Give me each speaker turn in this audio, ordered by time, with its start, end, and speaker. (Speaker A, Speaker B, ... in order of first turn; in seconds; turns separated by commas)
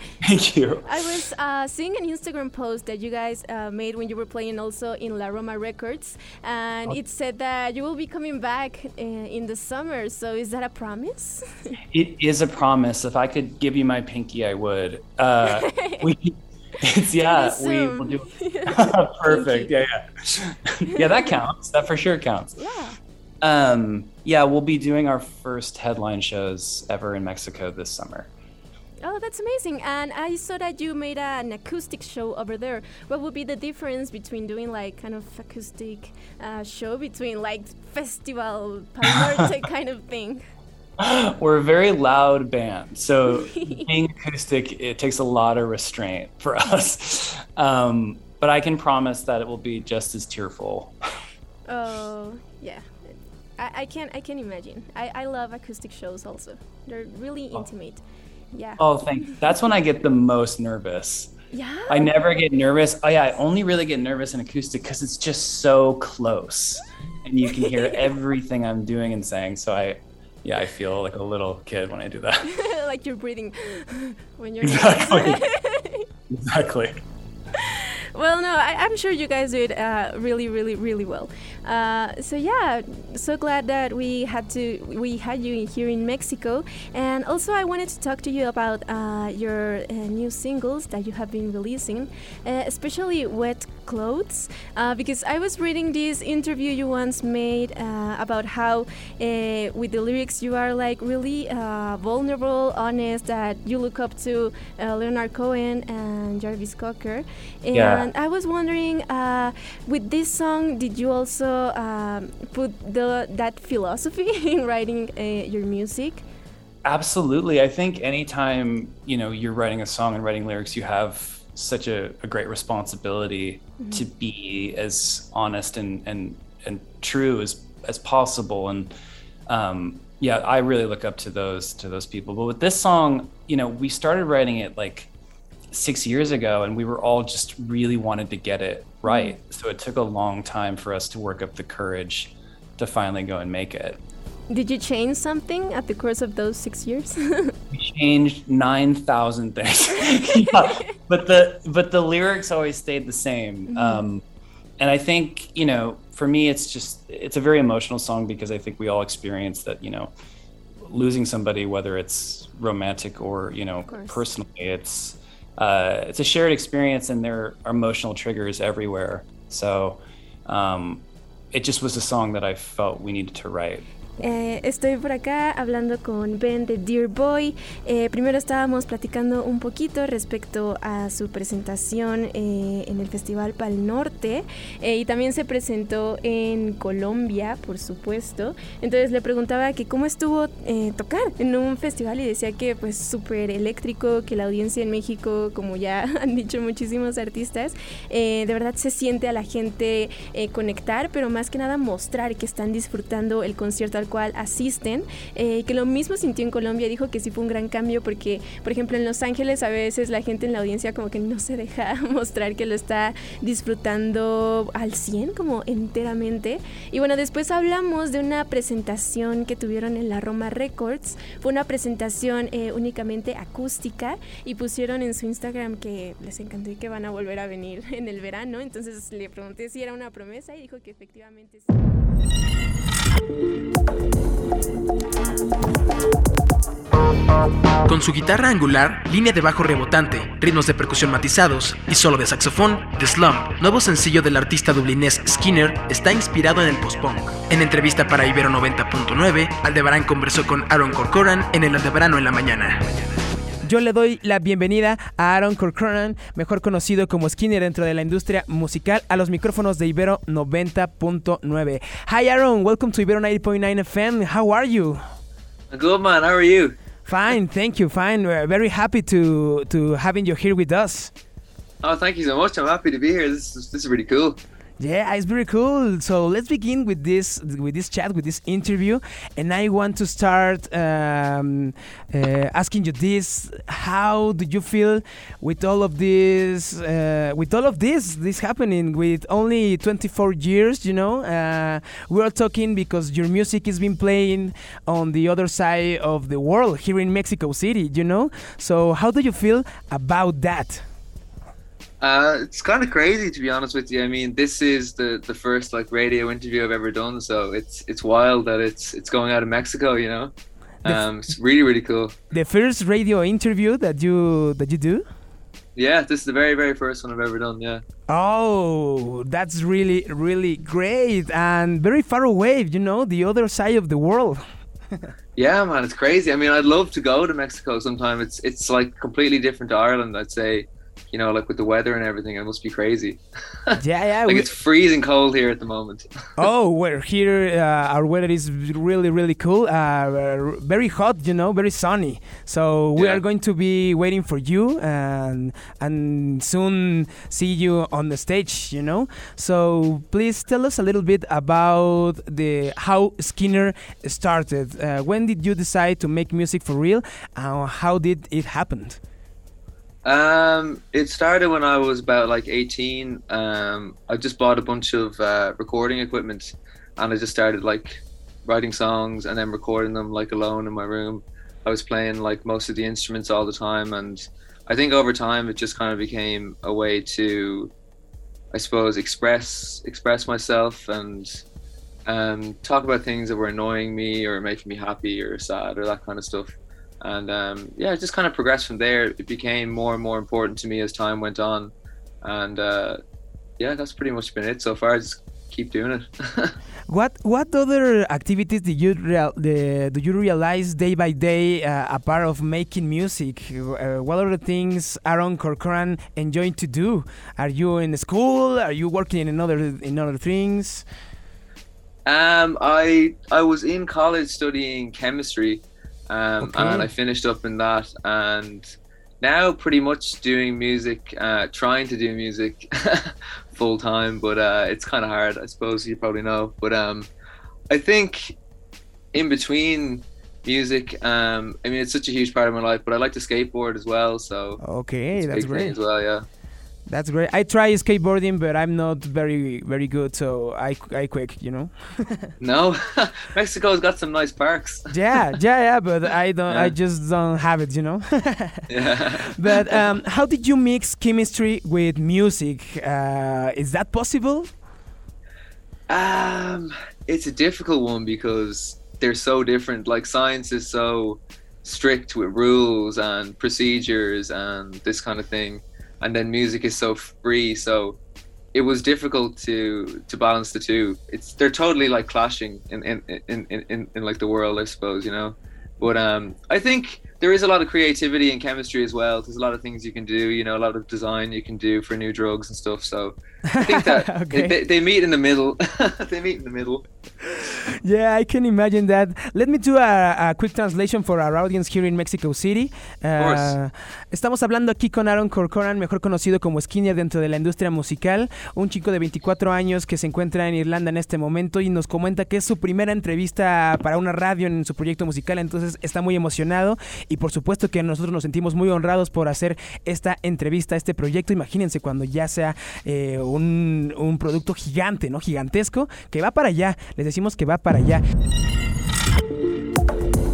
Speaker A: 0.2-0.9, Speaker B: 0.8-11.8, Speaker A: 11.9-22.6, Speaker B: 15.5-16.1, Speaker B: 17.2-19.7, Speaker B: 20.9-21.4, Speaker B: 22.6-23.0, Speaker A: 23.4-28.3, Speaker B: 29.0-40.4, Speaker A: 39.1-39.4, Speaker A: 41.0-50.9, Speaker B: 43.3-43.9, Speaker B: 51.7-59.5, Speaker A: 58.8-61.3, Speaker B: 61.5-62.2, Speaker A: 61.9-72.5, Speaker B: 67.5-68.1, Speaker B: 72.5-76.1, Speaker A: 74.6-75.4, Speaker A: 76.3-77.0, Speaker B: 77.6-116.2, Speaker A: 107.7-108.1, Speaker A: 116.8-128.9, Speaker B: 123.8-124.1, Speaker A: 129.5-135.1, Speaker A: 135.7-144.0, Speaker B: 139.0-139.4, Speaker B: 144.5-147.6, Speaker A: 147.7-154.2, Speaker B: 150.2-150.9, Speaker B: 153.7-154.1, Speaker A: 154.8-160.1, Speaker A: 160.8-173.9, Speaker B: 163.8-164.3, Speaker B: 174.2-231.8, Speaker C: 237.9-252.8, Speaker D: 253.6-265.0, Speaker E: 265.7-266.8, Speaker D: 267.1-271.1, Speaker E: 271.8-274.4, Speaker D: 274.8-300.8, Speaker E: 302.0-310.3, Speaker E: 310.9-312.1, Speaker D: 312.3-315.0, Speaker E: 315.8-317.8, Speaker D: 318.1-324.4, Speaker E: 325.4-333.2, Speaker D: 333.8-334.5, Speaker E: 334.2-336.1, Speaker D: 336.4-359.0, Speaker E: 343.0-343.2, Speaker E: 360.0-377.7, Speaker E: 378.5-381.4, Speaker E: 382.1-393.0, Speaker E: 393.6-396.6, Speaker D: 396.9-410.8, Speaker E: 412.1-418.7, Speaker D: 416.4-416.9, Speaker E: 419.2-427.1, Speaker E: 427.7-428.4, Speaker E: 429.1-434.6, Speaker D: 434.6-435.8, Speaker E: 435.1-436.2, Speaker D: 436.9-442.3, Speaker E: 442.4-444.9, Speaker D: 444.9-454.5, Speaker E: 446.5-446.7, Speaker E: 448.7-449.8, Speaker E: 455.9-468.0, Speaker E: 468.5-486.9, Speaker D: 483.5-484.6, Speaker D: 487.5-518.0, Speaker E: 493.2-493.6